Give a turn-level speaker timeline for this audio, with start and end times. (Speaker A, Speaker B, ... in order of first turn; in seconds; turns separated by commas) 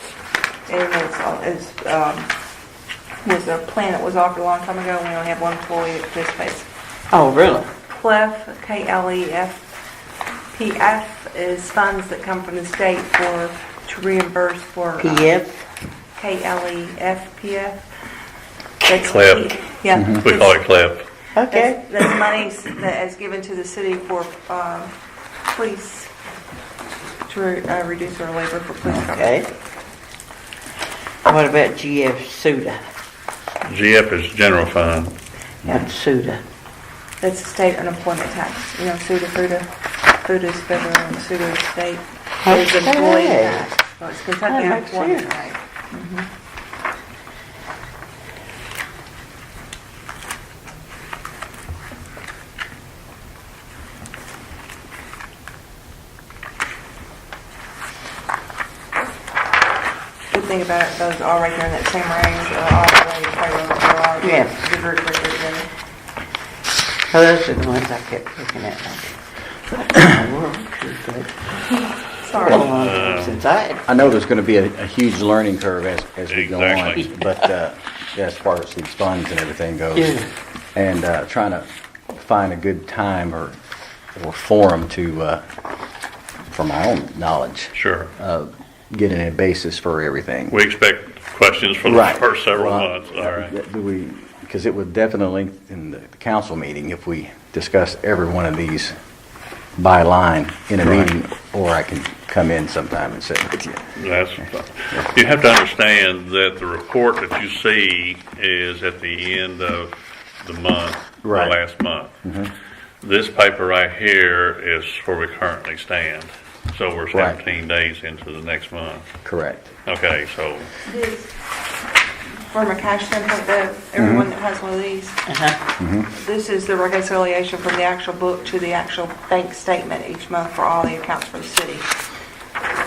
Speaker A: 0.7-2.3, Speaker A: 3.2-6.7, Speaker B: 7.1-7.7, Speaker A: 7.9-9.7, Speaker A: 10.5-15.3, Speaker B: 15.0-15.7, Speaker A: 16.2-17.8, Speaker A: 18.8-20.6, Speaker C: 19.1-21.1, Speaker B: 21.3-22.2, Speaker A: 21.5-24.9, Speaker A: 25.5-26.1, Speaker A: 27.3-29.4, Speaker B: 28.9-29.5, Speaker B: 31.2-32.9, Speaker C: 33.6-35.1, Speaker B: 35.6-36.4, Speaker A: 37.2-46.3, Speaker B: 42.4-43.7, Speaker B: 44.5-45.4, Speaker A: 60.3-65.7, Speaker B: 64.2-64.6, Speaker B: 67.1-71.3, Speaker A: 71.7-72.7, Speaker B: 72.4-73.9, Speaker C: 72.6-73.4, Speaker D: 73.9-80.2, Speaker C: 76.3-77.2, Speaker B: 76.9-77.4, Speaker B: 80.0-80.3, Speaker D: 80.8-83.6, Speaker D: 84.2-85.4, Speaker D: 86.5-90.6, Speaker C: 87.7-88.1, Speaker C: 90.5-93.5, Speaker D: 91.8-99.0, Speaker D: 99.8-104.0, Speaker C: 100.8-101.1, Speaker C: 104.0-112.1, Speaker D: 111.2-111.6, Speaker D: 112.2-112.5, Speaker C: 113.0-119.0, Speaker D: 117.1-117.4, Speaker D: 119.2-119.8, Speaker C: 119.9-120.7, Speaker A: 120.9-121.3, Speaker A: 122.5-125.3, Speaker D: 124.0-124.3, Speaker B: 125.3-125.6, Speaker D: 125.8-126.1, Speaker A: 126.1-131.9